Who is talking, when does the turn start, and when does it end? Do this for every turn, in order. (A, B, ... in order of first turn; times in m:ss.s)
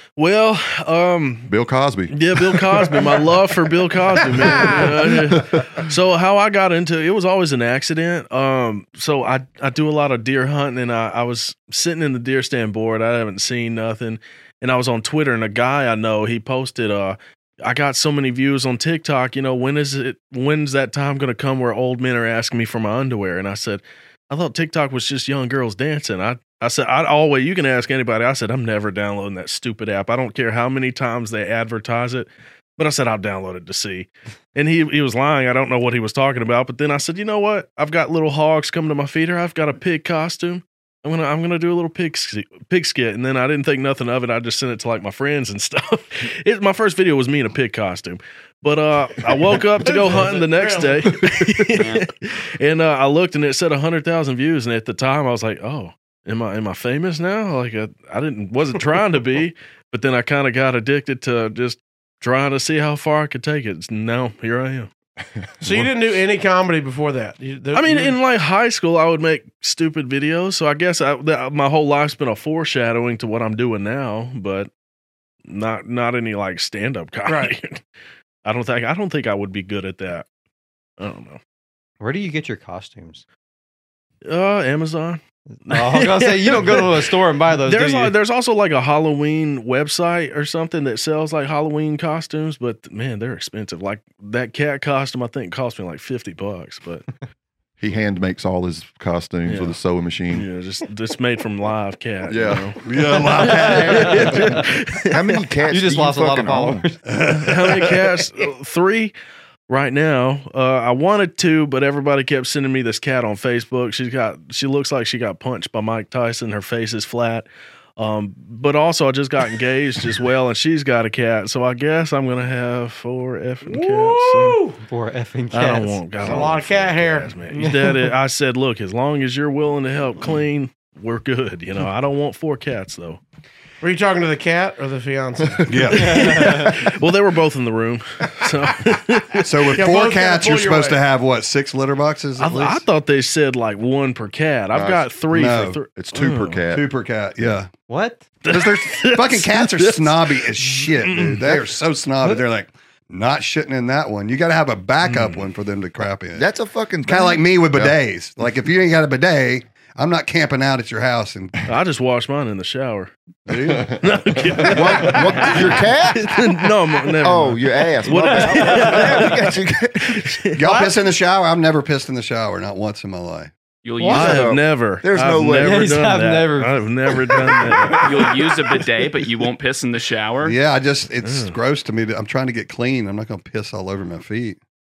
0:00.2-0:01.5 A
0:01.5-0:02.1 B
0:02.1-1:04.9 A
0:04.5-0:04.8 C
0:49.8-0:51.3 C
0:51.8-0:52.1 D
1:05.6-1:08.2 C
1:07.8-1:14.7 A
1:15.5-1:17.8 A
1:17.3-1:17.5 C
1:18.4-1:20.2 A
1:21.0-1:21.4 A
1:22.0-1:23.2 E
1:24.2-1:37.1 A
1:25.7-1:28.1 E
1:37.8-1:40.5 B
1:39.5-1:39.8 A
1:40.3-1:42.8 A
1:42.3-1:42.8 B
1:42.8-1:44.6 F
1:43.2-1:44.6 E
1:43.4-1:45.2 A
1:45.1-1:46.8 G
1:45.6-1:47.0 E
1:47.1-1:48.0 F
1:47.4-1:49.1 A
1:49.7-2:04.6 A
2:03.7-2:04.8 C
2:04.9-2:06.4 E
2:05.5-2:13.2 A
2:06.2-2:07.3 C
2:07.5-2:08.1 E
2:13.8-2:15.8 C
2:15.6-2:16.4 F
2:15.9-2:19.5 A
2:16.0-2:16.8 E
2:19.4-2:22.8 F
2:19.8-2:21.0 C
2:22.4-2:26.6 A
2:24.7-2:25.1 B
2:25.3-2:25.8 F
2:26.0-2:26.9 B
2:26.7-2:27.7 F
2:27.9-2:28.2 E
2:28.4-2:31.6 A
2:28.5-2:36.5 F
2:35.0-2:35.5 A
2:36.4-2:37.5 G
2:37.0-2:41.6 F
2:41.7-2:43.1 A
2:43.5-2:43.9 F
2:43.9-2:50.6 A
2:44.7-2:45.5 C
2:44.7-2:46.4 G
2:47.2-2:50.4 G
2:48.6-2:49.1 E
2:50.6-2:53.5 F
2:50.6-2:51.0 C
2:53.8-2:54.5 D
2:54.0-2:54.4 C
2:54.1-2:55.8 G
2:54.1-2:58.5 A
2:55.6-2:58.3 E
2:58.0-3:00.6 D
3:00.4-3:04.6 F
3:01.2-3:01.5 A